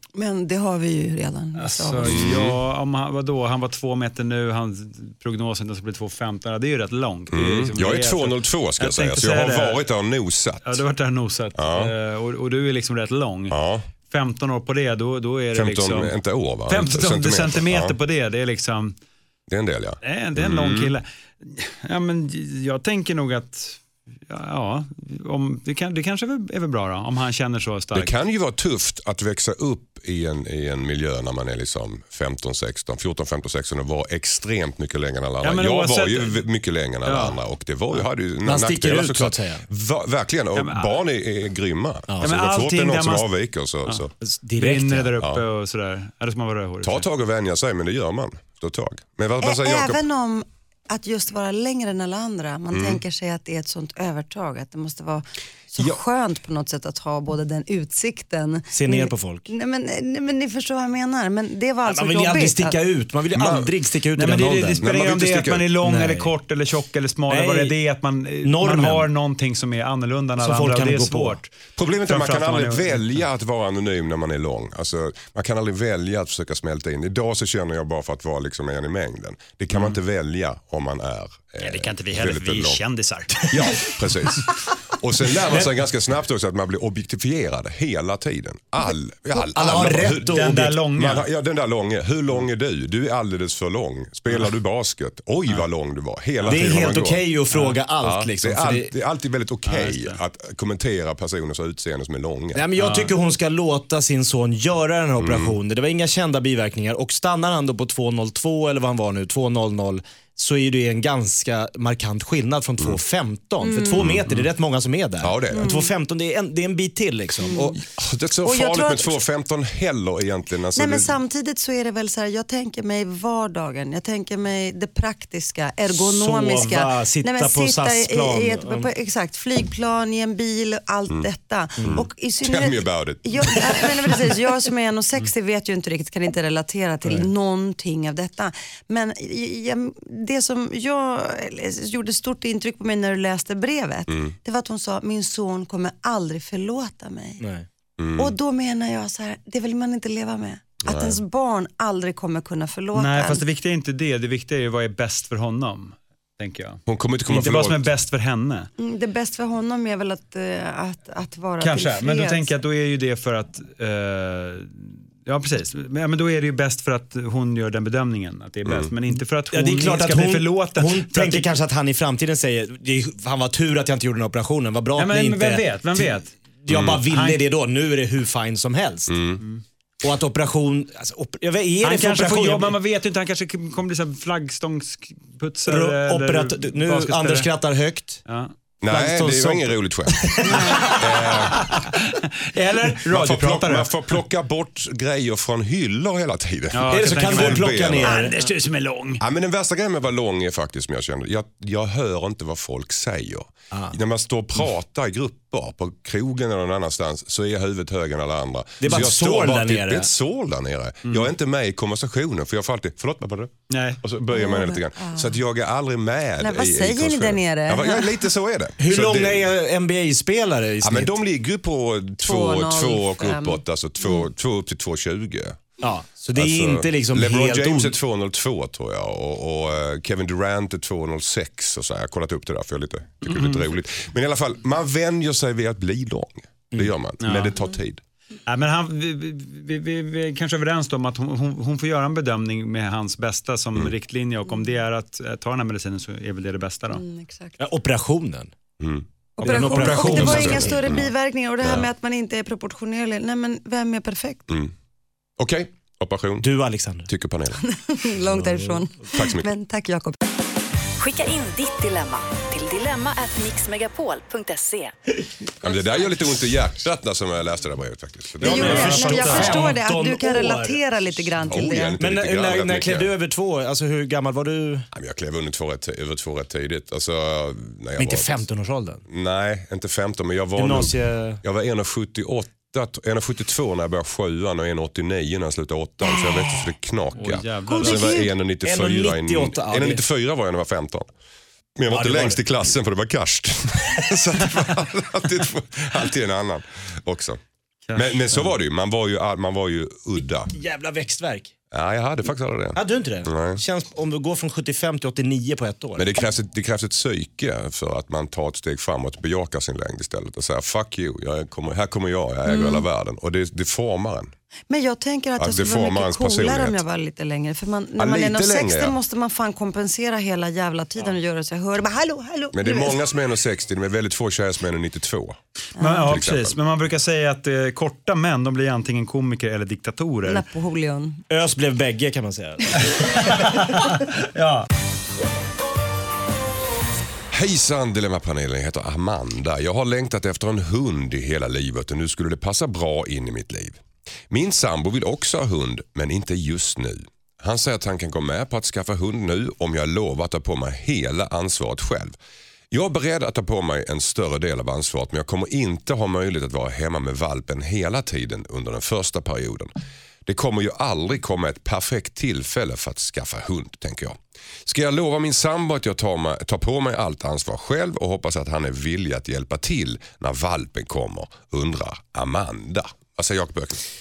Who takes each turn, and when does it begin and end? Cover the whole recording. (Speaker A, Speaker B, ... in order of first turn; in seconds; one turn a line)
Speaker A: 0.1-2.3
Speaker B: 1.6-9.8
Speaker C: 2.0-2.6
Speaker C: 7.3-10.8
Speaker B: 10.6-13.6
Speaker C: 11.6-11.9
Speaker C: 13.5-13.9
Speaker B: 14.1-16.1
Speaker C: 15.5-17.9
Speaker B: 16.7-18.9
Speaker C: 19.5-20.9
Speaker B: 20.0-28.1
Speaker C: 27.9-44.1
Speaker B: 35.4-36.4
Speaker B: 37.0-37.4
Speaker D: 38.4-39.6
Speaker B: 40.5-40.9
Speaker B: 42.2-43.3
Speaker D: 44.2-45.1
Speaker B: 44.6-47.0
Speaker C: 46.8-50.0
Speaker A: 49.4-62.8
Speaker C: 52.7-53.0
Speaker D: 58.7-59.5
Speaker D: 61.9-64.8
Speaker C: 63.3-63.7
Speaker B: 64.1-71.5
Speaker C: 64.8-65.7
Speaker D: 65.8-66.3
Speaker D: 67.3-67.7
Speaker D: 68.4-69.1
Speaker D: 70.4-71.3
Speaker C: 71.8-82.8
Speaker B: 72.1-73.2
Speaker B: 81.6-84.3
Speaker C: 83.4-97.2
Speaker D: 85.5-85.8
Speaker D: 89.3-90.8
Speaker B: 90.3-91.3
Speaker B: 96.4-96.7
Speaker D: 96.5-98.9
Speaker C: 98.0-102.7
Speaker B: 99.6-100.2
Speaker D: 102.5-117.8
Speaker B: 102.8-103.1
Speaker C: 105.2-105.6
Speaker A: 113.6-114.1
Speaker C: 113.9-114.3
Speaker C: 115.2-115.7
Speaker A: 115.5-115.9
Speaker A: 117.4-117.7
Speaker C: 117.8-121.2
Speaker A: 118.4-119.1
Speaker A: 120.8-147.4
Speaker D: 125.9-128.9
Speaker C: 131.8-134.1
Speaker C: 144.1-144.3
Speaker D: 147.4-147.7
Speaker C: 148.0-148.3
Speaker A: 148.2-153.4
Speaker C: 150.8-151.2
Speaker B: 152.9-158.7
Speaker C: 156.9-157.9
Speaker A: 158.8-162.5
Speaker B: 161.6-171.5
Speaker D: 169.1-179.2
Speaker B: 174.9-176.4
Speaker C: 176.7-177.0
Speaker B: 177.1-177.4
Speaker C: 179.1-179.4
Speaker D: 180.0-182.7
Speaker B: 181.8-187.5
Speaker D: 185.7-188.2
Speaker B: 188.2-188.5
Speaker C: 188.8-191.6
Speaker D: 188.9-191.0
Speaker B: 190.4-193.9
Speaker C: 193.1-198.1
Speaker B: 196.7-199.2
Speaker D: 196.9-198.3
Speaker C: 199.2-219.5
Speaker D: 208.8-210.1
Speaker B: 211.0-211.3
Speaker B: 213.7-214.0
Speaker A: 214.3-215.4
Speaker A: 216.4-218.2
Speaker D: 218.8-221.2
Speaker C: 220.8-225.8
Speaker A: 222.2-224.2
Speaker D: 225.8-227.9
Speaker C: 226.3-238.0
Speaker B: 233.3-233.6
Speaker B: 237.2-237.6
Speaker B: 238.4-247.0
Speaker A: 246.9-247.6
Speaker D: 247.6-248.5
Speaker C: 248.8-249.1
Speaker A: 249.4-254.5
Speaker D: 249.4-250.7
Speaker B: 249.4-250.7
Speaker C: 249.7-251.1
Speaker C: 251.6-251.9
Speaker C: 255.4-256.5
Speaker D: 256.4-257.1
Speaker C: 257.1-257.6
Speaker A: 257.6-260.2
Speaker D: 258.3-258.8
Speaker C: 259.1-259.5
Speaker E: 261.0-264.9
Speaker C: 265.6-269.4
Speaker A: 268.4-271.9
Speaker D: 268.4-274.9
Speaker B: 268.5-269.8
Speaker C: 271.4-273.1
Speaker C: 274.9-278.4
Speaker D: 278.0-279.0
Speaker C: 279.1-291.1
Speaker D: 280.6-281.4
Speaker B: 287.1-288.2
Speaker D: 287.7-290.0
Speaker C: 291.8-297.4
Speaker D: 291.9-292.4
Speaker B: 297.9-298.5
Speaker C: 297.9-300.5
Speaker D: 300.5-301.5
Speaker C: 301.7-303.6
Speaker D: 302.7-306.1
Speaker C: 306.0-314.3
Speaker A: 312.4-312.8
Speaker A: 314.7-323.0
Speaker C: 315.4-316.8
Speaker C: 318.0-318.9
Speaker C: 322.5-325.4
Speaker B: 325.8-330.4
Speaker A: 325.8-326.2
Speaker C: 326.1-326.6
Speaker A: 330.2-331.2
Speaker D: 331.3-332.8
Speaker B: 333.0-334.7
Speaker C: 337.3-352.1
Speaker C: 352.7-359.7
Speaker C: 360.2-373.8